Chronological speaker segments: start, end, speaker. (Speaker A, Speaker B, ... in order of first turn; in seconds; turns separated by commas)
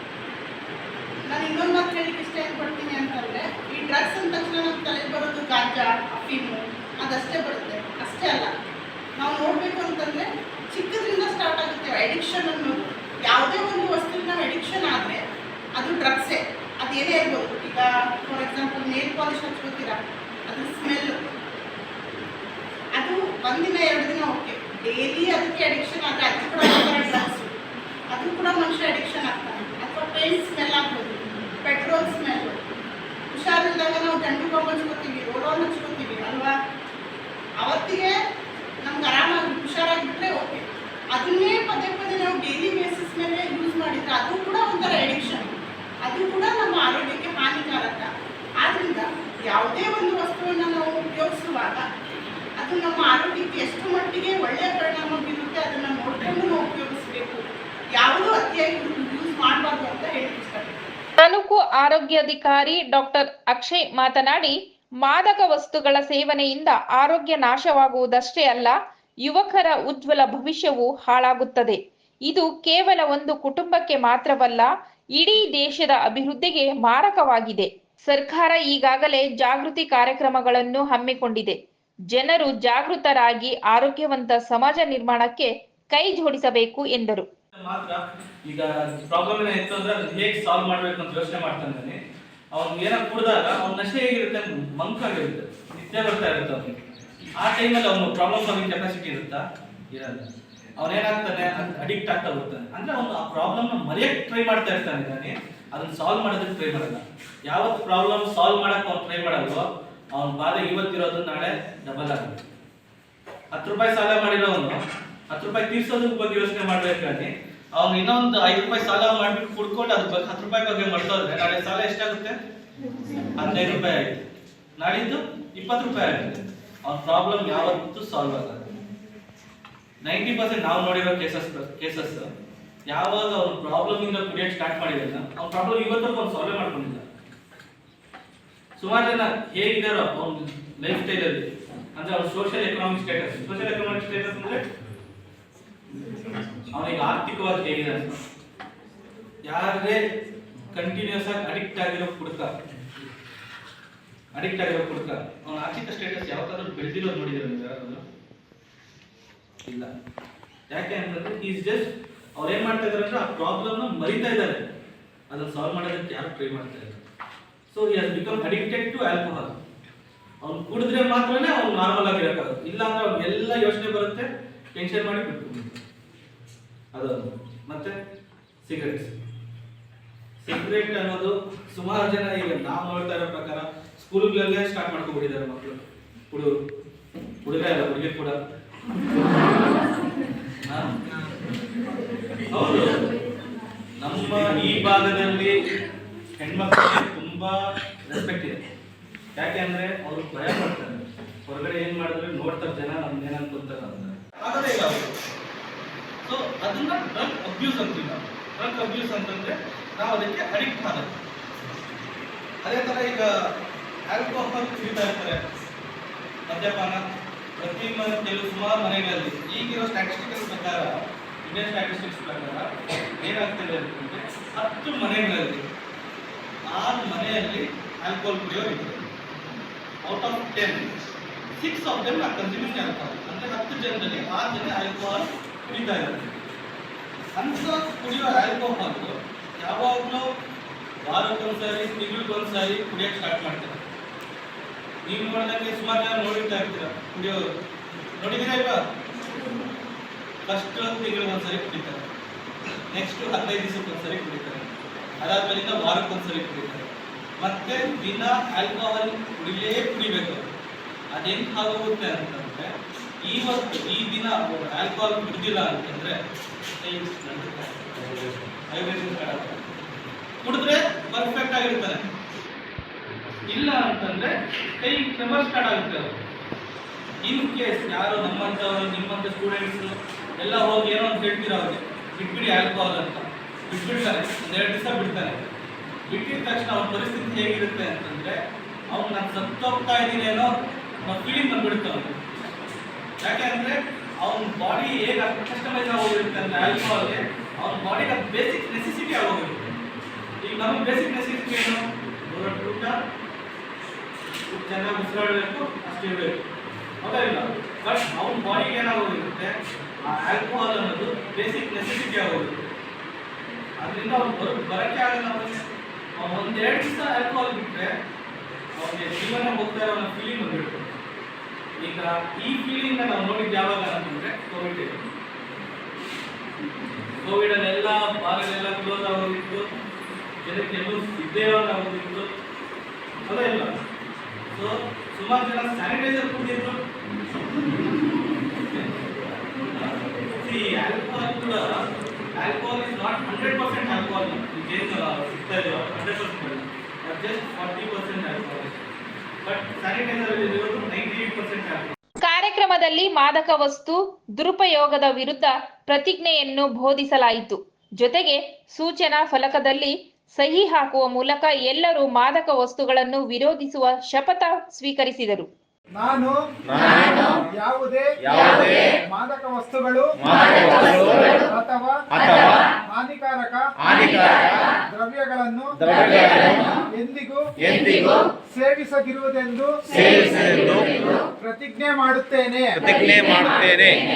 Speaker A: 1.3-8.5, Speaker A: 9.2-15.2, Speaker A: 15.8-21.2, Speaker A: 23.0-27.5, Speaker A: 28.1-32.5, Speaker A: 33.3-36.5, Speaker A: 37.6-38.1, Speaker A: 38.8-48.1, Speaker A: 48.6-51.8, Speaker A: 52.6-60.9, Speaker B: 61.2-71.8, Speaker B: 72.3-81.6, Speaker B: 82.1-87.3, Speaker C: 87.5-92.0, Speaker C: 92.5-96.8, Speaker C: 97.4-100.2, Speaker C: 100.8-112.3, Speaker C: 113.5-114.8, Speaker C: 115.3-122.4, Speaker C: 123.4-124.2, Speaker C: 124.8-128.8, Speaker C: 130.0-132.3, Speaker C: 132.9-137.1, Speaker C: 138.8-144.7, Speaker C: 146.7-148.2, Speaker C: 149.4-150.0, Speaker C: 150.7-152.5, Speaker C: 154.3-158.0, Speaker C: 159.7-159.9, Speaker C: 160.7-164.7, Speaker C: 165.3-167.0, Speaker C: 167.7-169.5, Speaker C: 170.4-175.8, Speaker C: 176.9-177.9, Speaker C: 178.6-179.1, Speaker C: 180.4-185.8, Speaker C: 187.4-188.4, Speaker C: 190.7-190.9, Speaker C: 192.5-192.9, Speaker C: 194.0-195.6, Speaker C: 196.4-198.6, Speaker C: 199.4-205.1, Speaker C: 206.2-211.2, Speaker C: 212.6-213.3, Speaker C: 214.1-215.4, Speaker C: 216.5-217.0, Speaker C: 217.6-225.6, Speaker C: 226.7-229.1, Speaker C: 230.0-230.9, Speaker C: 231.6-236.4, Speaker C: 237.3-240.2, Speaker C: 241.0-243.8, Speaker C: 245.1-247.4, Speaker C: 248.2-248.8, Speaker C: 250.4-252.0, Speaker C: 252.9-254.7, Speaker C: 255.2-260.5, Speaker C: 261.1-262.7, Speaker C: 263.2-266.2, Speaker C: 266.8-269.6, Speaker C: 270.4-272.1, Speaker C: 273.5-276.2, Speaker C: 277.2-285.5, Speaker C: 286.1-288.4, Speaker C: 288.9-290.5, Speaker C: 291.0-292.2, Speaker C: 293.2-299.8, Speaker C: 300.4-303.0, Speaker C: 304.5-306.4, Speaker C: 307.0-312.6, Speaker C: 313.8-315.6, Speaker C: 316.2-317.9, Speaker C: 318.8-321.0, Speaker C: 321.8-325.1, Speaker C: 327.1-329.7, Speaker C: 330.4-332.3, Speaker C: 333.3-333.8, Speaker C: 334.5-336.8, Speaker C: 338.4-341.8, Speaker C: 342.3-348.9, Speaker C: 349.4-351.9, Speaker B: 352.2-365.5, Speaker D: 366.0-366.6, Speaker E: 366.7-367.1, Speaker D: 367.1-373.9, Speaker E: 368.3-368.8, Speaker E: 370.3-371.0, Speaker E: 372.2-372.6, Speaker E: 373.9-374.6, Speaker D: 374.7-375.9, Speaker E: 375.8-376.6, Speaker D: 376.7-377.5, Speaker E: 377.7-378.2, Speaker D: 378.4-380.0, Speaker E: 379.9-381.0, Speaker D: 381.4-382.9, Speaker E: 382.8-384.1